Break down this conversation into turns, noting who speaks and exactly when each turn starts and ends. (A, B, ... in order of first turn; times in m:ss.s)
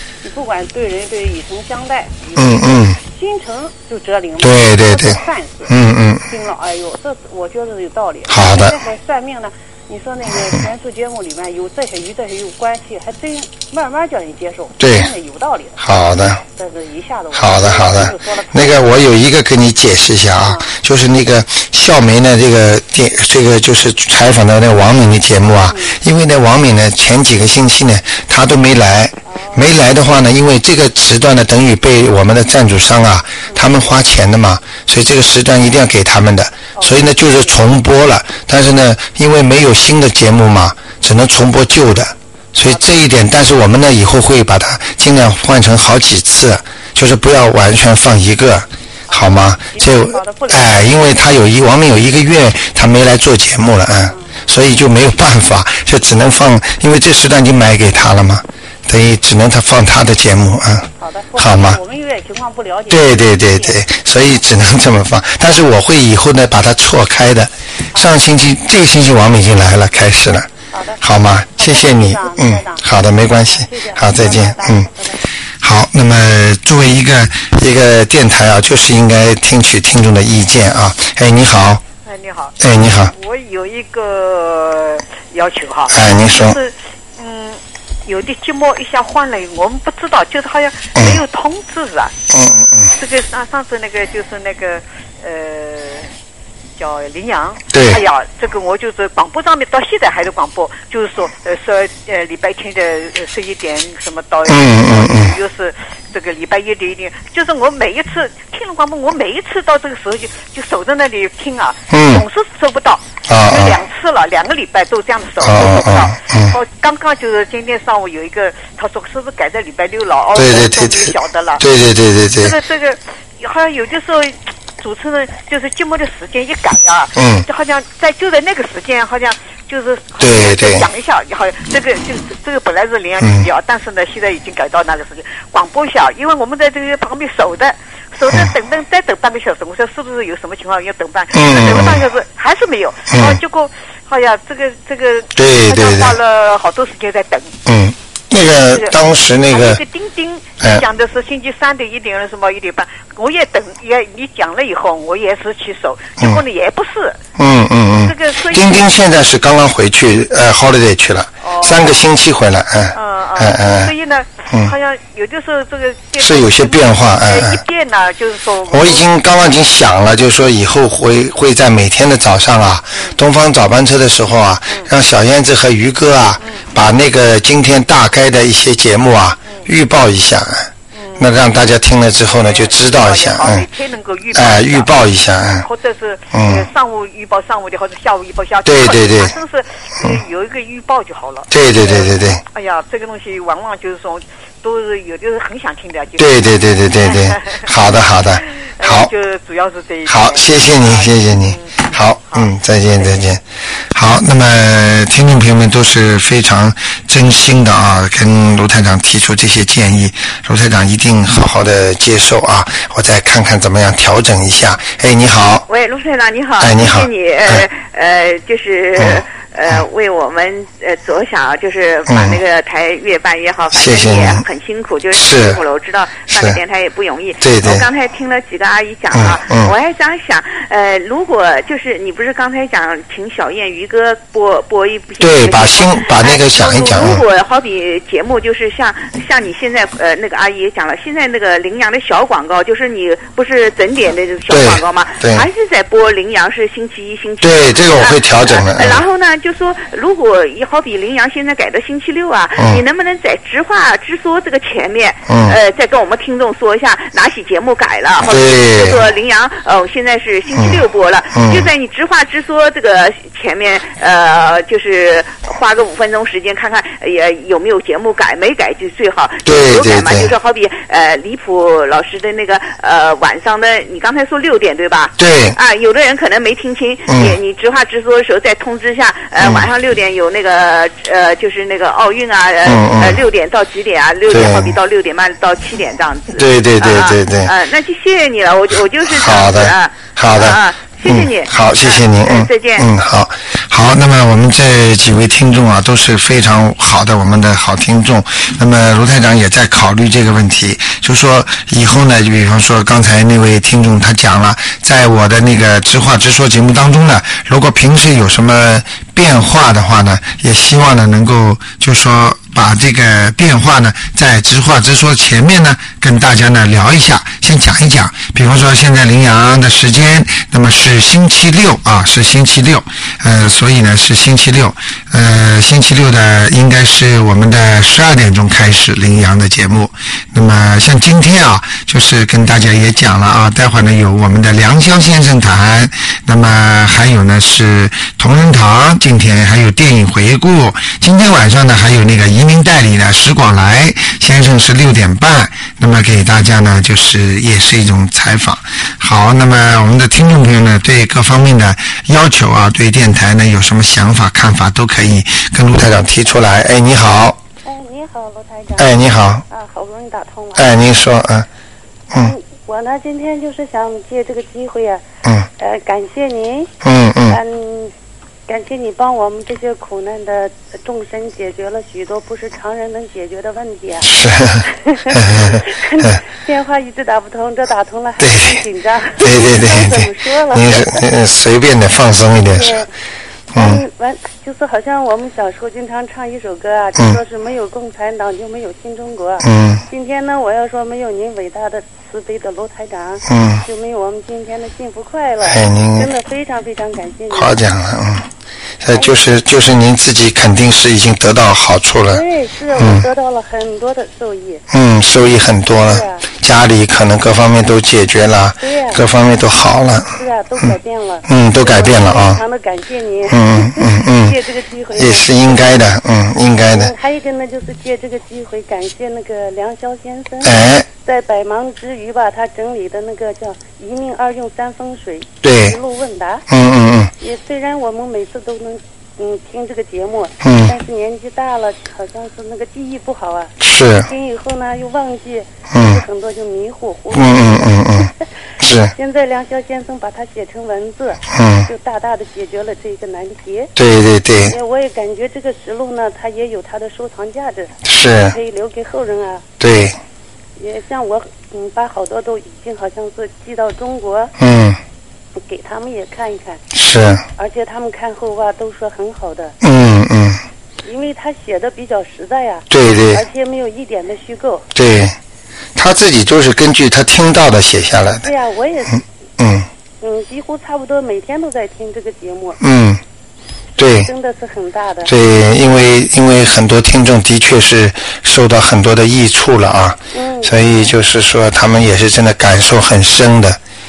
0:00.2-0:05.7 A
0:02.4-0:03.0 B
0:04.4-0:06.2 B
0:06.3-0:15.8 A
0:08.3-0:08.8 B
0:14.8-0:15.1 B
0:15.8-0:16.4 B
0:16.6-0:19.0 A
0:17.3-1:01.8 B
0:20.4-0:20.8 A
0:25.7-0:26.0 A
0:29.3-0:29.7 A
0:36.8-0:37.5 A
0:49.1-0:51.2 A
1:01.0-1:03.8 A
1:02.9-1:10.5 B
1:10.7-1:11.0 A
1:11.0-1:14.9 B
1:11.6-1:12.8 A
1:13.4-1:15.2 A
1:15.6-1:21.8 B
1:22.0-1:32.2 C
1:22.6-1:23.1 B
1:25.9-1:26.6 B
1:31.0-1:31.2 B
1:32.3-1:33.0 B
1:33.0-1:36.1 C
1:36.8-2:01.6 C
1:37.7-1:38.0 B
1:44.5-1:45.4 B
1:51.9-1:52.2 B
1:53.3-1:53.8 B
1:55.4-1:56.6 B
2:00.4-2:02.6 B
2:02.4-2:27.6 C
2:07.2-2:07.5 B
2:10.2-2:10.9 B
2:13.2-2:13.5 B
2:21.3-2:22.0 B
2:23.1-2:23.4 B
2:25.4-2:26.2 B
2:27.7-2:29.8 B
2:28.7-2:29.0 C
2:29.5-2:37.2 C
2:37.4-2:43.9 B
2:38.0-2:38.9 C
2:41.4-2:42.0 C
2:42.9-2:49.1 C
2:46.2-2:47.6 B
2:48.7-3:03.7 B
2:52.9-2:53.2 C
2:56.4-2:56.7 C
3:00.9-3:01.3 C
3:02.3-3:04.9 C
3:04.3-3:05.7 B
3:05.6-3:16.3 C
3:06.3-3:06.7 B
3:08.6-3:09.3 B
3:11.5-3:12.4 B
3:16.2-3:19.1 B
3:17.0-3:17.7 C
3:18.4-3:23.3 C
3:20.1-3:23.4 B
3:23.9-3:35.7 B
3:35.7-4:52.9 D
3:36.6-3:37.7 B
3:39.0-3:39.2 B
3:42.1-3:42.4 B
3:43.7-3:44.4 B
3:45.1-3:45.6 B
3:46.3-3:46.6 B
3:47.4-3:47.9 B
3:49.1-3:49.7 B
3:55.2-3:57.2 B
4:04.5-4:05.5 B
4:07.4-4:09.0 B
4:12.6-4:12.8 B
4:15.3-4:15.6 B
4:18.2-4:19.0 B
4:20.6-4:20.8 B
4:21.3-4:21.7 B
4:29.4-4:30.3 B
4:35.2-4:35.6 B
4:37.1-4:37.4 B
4:39.4-4:39.7 B
4:42.6-4:43.2 B
4:44.3-4:44.8 B
4:46.3-4:47.5 B
4:49.1-5:57.4 B
5:57.6-6:00.7 E
5:58.8-5:59.4 B
6:00.6-6:01.5 B
6:02.1-6:05.0 E
6:05.6-6:06.7 E
6:06.8-6:07.4 B
6:07.3-6:07.9 E
6:08.5-6:21.0 E
6:14.0-6:15.6 B
6:18.2-6:18.6 B
6:19.2-6:22.8 B
6:22.5-6:22.9 E
6:23.5-6:23.8 B
6:23.6-6:37.6 E
6:29.4-6:29.8 B
6:33.3-6:33.6 B
6:35.4-6:36.1 B
6:37.3-6:38.3 B
6:38.8-6:42.2 B
6:38.9-6:39.2 E
6:42.1-6:44.6 E
6:42.8-6:43.1 B
6:44.7-6:50.7 B
6:45.7-6:46.3 E
6:48.6-6:49.0 E
6:50.2-6:55.9 E
6:51.3-6:52.4 B
6:53.3-6:54.4 B
6:54.9-6:56.9 B
6:56.7-7:06.4 E
7:00.4-7:00.9 B
7:05.4-7:05.8 B
7:06.5-7:07.1 B
7:07.2-7:13.5 E
7:10.4-7:10.7 B
7:13.6-7:14.1 B
7:14.1-7:18.1 E
7:15.7-7:16.0 B
7:17.1-7:18.9 B
7:19.0-7:23.7 E
7:21.3-7:21.7 B
7:23.8-7:24.6 B
7:24.5-7:27.8 E
7:27.8-7:28.4 B
7:28.3-7:29.5 E
7:29.6-7:30.0 B
7:30.6-7:34.3 E
7:34.4-7:34.8 B
7:35.4-7:36.6 E
7:36.7-7:37.2 B
7:37.4-7:39.6 E
7:39.6-7:40.4 B
7:40.8-7:44.7 E
7:42.7-7:43.2 B
7:44.8-7:45.2 B
7:45.8-7:48.3 B
7:48.2-7:49.0 E
7:49.4-7:49.7 B
7:50.0-7:52.6 E
7:52.6-7:53.0 B
7:53.8-7:54.1 B
7:53.8-7:55.1 E
7:55.0-8:03.6 B
8:00.1-8:00.8 E